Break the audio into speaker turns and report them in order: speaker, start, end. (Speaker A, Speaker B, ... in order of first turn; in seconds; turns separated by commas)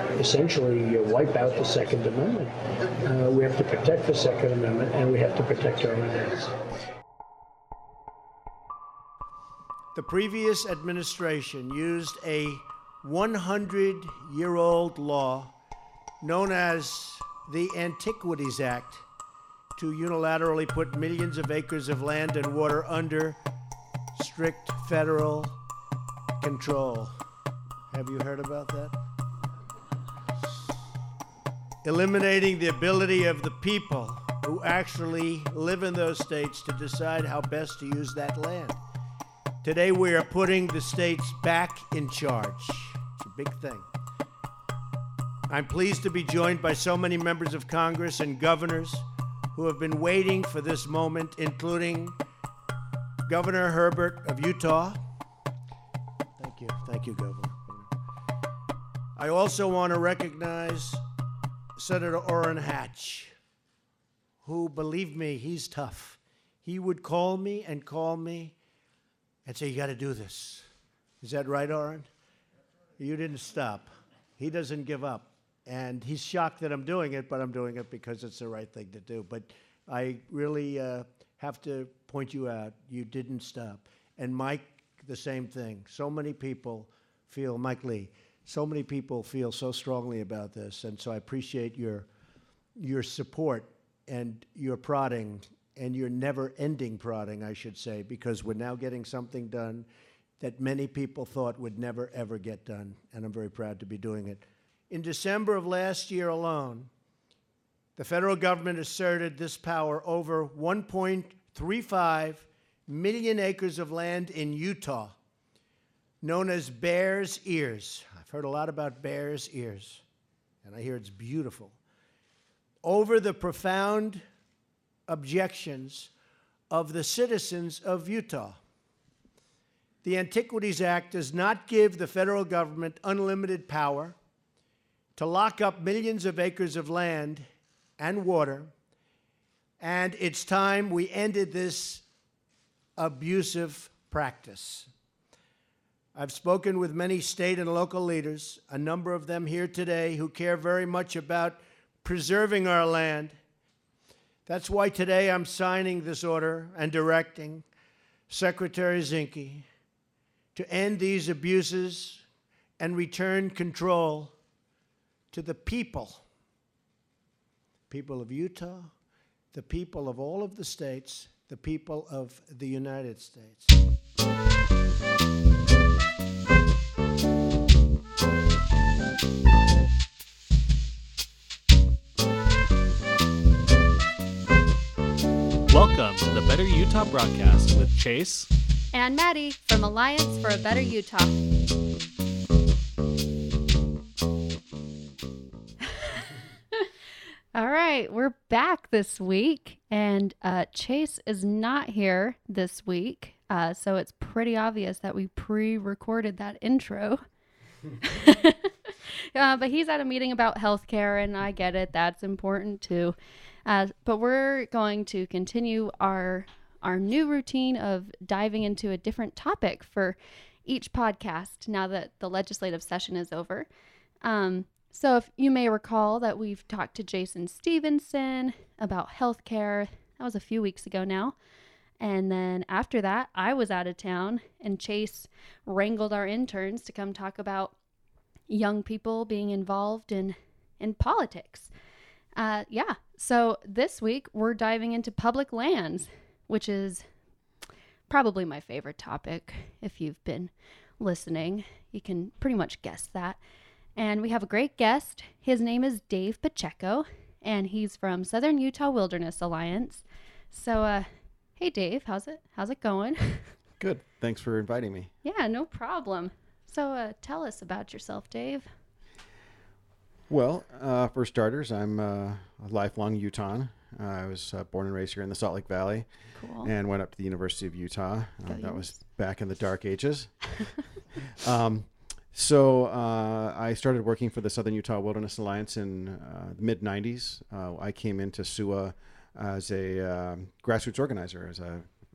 Speaker A: 0.2-2.5, Speaker A: 3.0-6.5, Speaker B: 9.9-15.5, Speaker B: 16.2-19.1, Speaker B: 19.8-23.4, Speaker B: 24.1-25.6, Speaker B: 26.4-27.2, Speaker B: 27.9-29.0, Speaker B: 31.8-38.8, Speaker B: 39.6-43.9, Speaker B: 45.5-52.2, Speaker B: 53.3-55.0, Speaker B: 56.4-57.9, Speaker B: 59.2-61.0, Speaker B: 61.8-63.3, Speaker B: 64.4-68.5, Speaker B: 69.5-70.7, Speaker B: 71.2-72.1, Speaker B: 73.0-92.1, Speaker B: 92.8-99.9, Speaker B: 100.4-106.9, Speaker B: 108.0-115.2, Speaker B: 116.2-120.0, Speaker B: 120.6-121.8, Speaker B: 122.8-124.2, Speaker B: 125.1-126.1, Speaker B: 126.7-128.6, Speaker B: 130.0-134.2, Speaker B: 135.2-137.5, Speaker B: 138.0-138.7, Speaker B: 139.8-142.0, Speaker B: 143.0-144.9, Speaker B: 146.2-153.4, Speaker B: 154.5-157.7, Speaker B: 158.3-159.7, Speaker B: 160.6-162.2, Speaker B: 162.8-164.3, Speaker B: 165.3-166.2, Speaker B: 167.9-168.9, Speaker B: 169.5-173.8, Speaker C: 185.7-188.5, Speaker D: 188.9-191.3, Speaker D: 197.6-207.2, Speaker D: 208.0-213.2, Speaker D: 213.7-223.7, Speaker D: 224.2-231.3, Speaker D: 232.0-237.7, Speaker D: 238.5-241.7, Speaker D: 242.4-247.1, Speaker D: 248.1-253.4, Speaker D: 254.0-263.5, Speaker E: 263.8-265.1, Speaker D: 265.2-268.7, Speaker E: 270.3-276.1, Speaker D: 276.4-276.7, Speaker E: 276.6-280.4, Speaker D: 278.5-279.0, Speaker E: 281.2-291.9